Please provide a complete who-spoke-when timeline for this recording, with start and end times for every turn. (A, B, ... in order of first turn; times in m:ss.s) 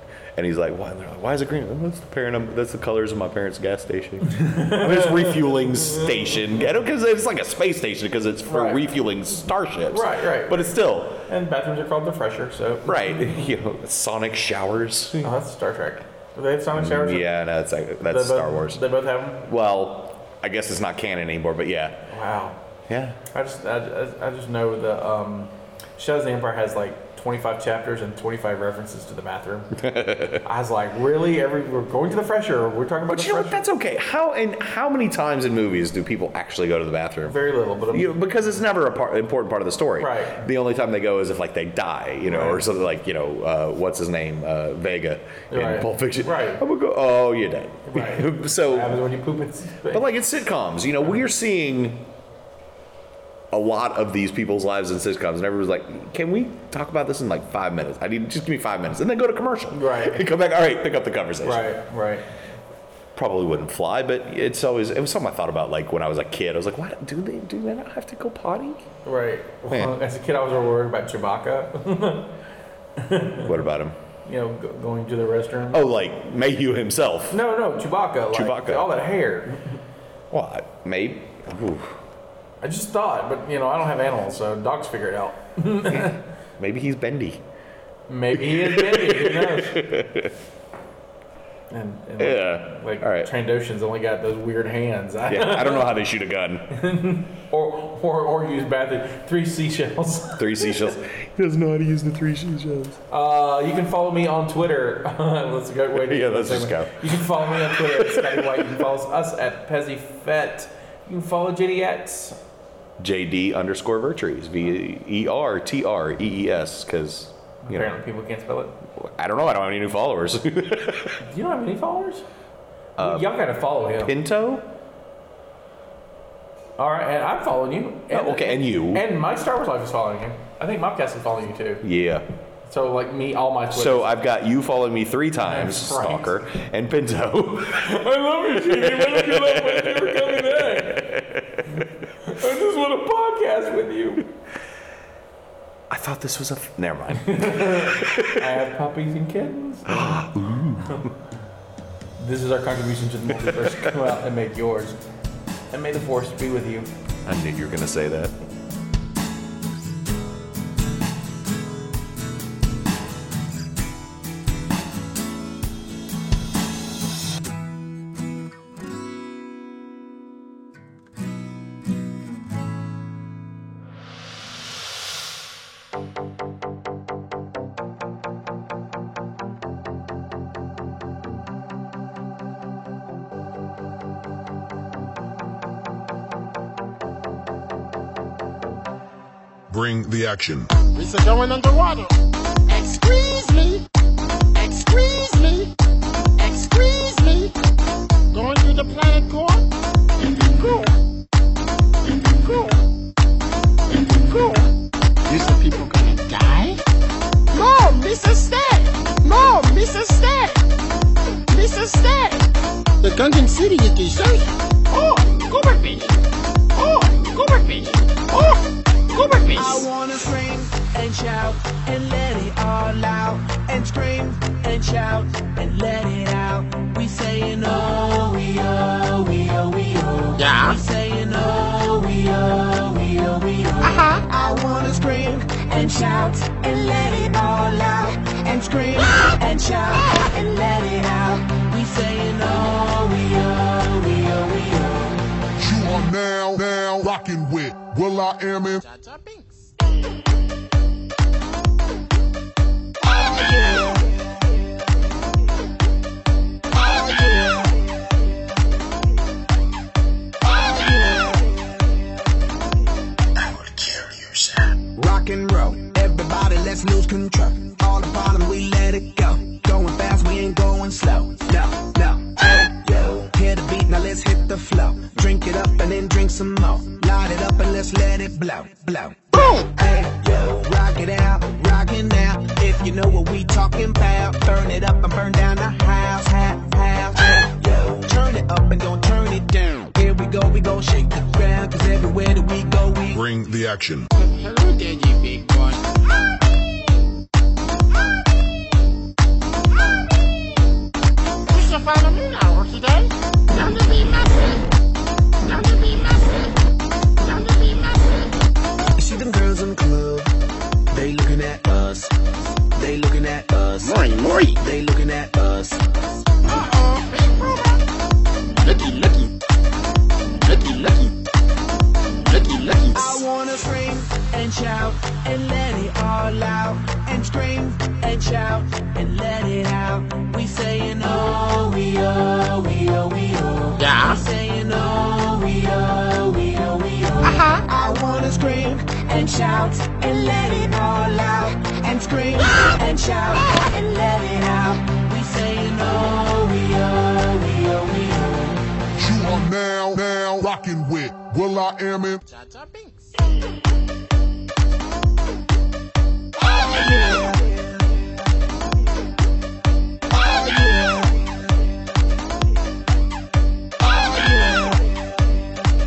0:00.4-0:11.2 A
0:04.4-0:06.0 B
0:08.5-0:08.8 B
0:09.9-0:13.4 B
0:12.8-0:15.3 A
0:15.2-0:17.3 B
0:16.8-0:18.8 A
0:18.0-0:19.5 B
0:19.4-0:22.1 A
0:22.1-0:22.6 B
0:22.9-0:23.2 A
0:23.3-0:29.8 B
0:29.8-0:30.4 A
0:30.4-0:33.6 B
0:33.1-0:37.4 A
0:37.3-0:38.2 B
0:37.9-0:49.0 A
0:40.0-0:40.4 B
0:42.3-0:42.6 B
0:45.5-0:46.6 B
0:47.9-0:50.0 B
0:49.9-0:52.1 A
0:53.5-1:01.7 A
0:59.7-1:00.2 B
1:01.4-1:02.3 B
1:03.2-1:08.9 A
1:09.0-1:12.3 B
1:09.7-1:09.9 A
1:13.0-1:13.5 B
1:13.4-1:14.0 A
1:14.3-1:15.9 B
1:15.7-1:17.4 A
1:17.3-1:19.8 B
1:18.3-1:18.9 A
1:20.3-1:22.0 A
1:22.6-1:26.2 B
1:25.8-1:27.4 A
1:28.1-1:29.9 B
1:28.4-1:30.4 A
1:31.7-1:36.0 B
1:32.2-1:33.3 A
1:35.3-1:36.7 A
1:36.7-1:40.8 B
1:40.4-1:43.0 A
1:43.1-1:52.4 B
1:46.0-1:48.9 A
1:53.0-1:57.9 A
1:57.6-1:58.7 B
1:59.0-2:01.2 A
2:01.2-2:02.2 B
2:03.0-2:03.4 A
2:03.0-2:04.1 B
2:04.0-2:04.7 A
2:06.8-2:11.8 B
2:08.1-2:09.1 A
2:11.8-2:12.3 A
2:12.6-2:14.1 B
2:13.7-2:17.9 A
2:15.4-2:16.4 B
2:17.8-2:21.2 B
2:18.5-2:21.8 A
2:21.8-2:24.3 B
2:25.9-2:28.5 A
2:27.1-2:30.3 B
2:29.9-2:31.1 A
2:32.2-2:35.0 B
2:33.4-2:34.1 A
2:35.7-2:36.9 B
2:37.2-2:38.3 A
3:09.7-3:10.7 C
3:10.9-3:12.1 D
3:12.7-3:13.8 D
3:14.6-3:15.7 D
3:16.4-3:17.5 D
3:18.3-3:19.7 D
3:20.6-3:20.9 D
3:22.4-3:22.8 D
3:24.3-3:24.7 D
3:25.3-3:26.8 D
3:27.5-3:30.6 D
3:31.5-3:32.4 D
3:33.0-3:36.2 D
3:36.8-3:39.9 D
3:39.5-4:05.2 E
3:50.4-3:50.8 D
3:53.8-3:54.2 D
4:05.6-4:08.8 C
4:08.7-4:09.7 D
4:13.2-4:14.0 E
4:16.9-4:17.7 E
4:20.5-4:21.5 E
4:25.0-4:53.2 E
4:39.3-4:39.7 D
4:53.1-4:54.1 C
4:54.1-4:55.9 D
5:01.5-5:04.6 D
5:05.4-5:06.5 D
5:07.2-5:08.3 D
5:09.0-5:10.3 E
5:10.9-5:12.1 E
5:12.8-5:13.8 E
5:13.8-5:14.6 D
5:14.7-5:15.8 E
5:16.5-5:17.8 D
5:18.6-5:19.3 D
5:20.4-5:21.1 D
5:22.3-5:23.2 D
5:23.0-5:48.6 E
5:33.8-5:34.2 D
5:37.2-5:37.6 D
5:49.0-5:52.2 C
5:52.2-5:53.1 D
5:56.6-5:57.6 E
6:00.2-6:01.2 E
6:03.9-6:04.8 E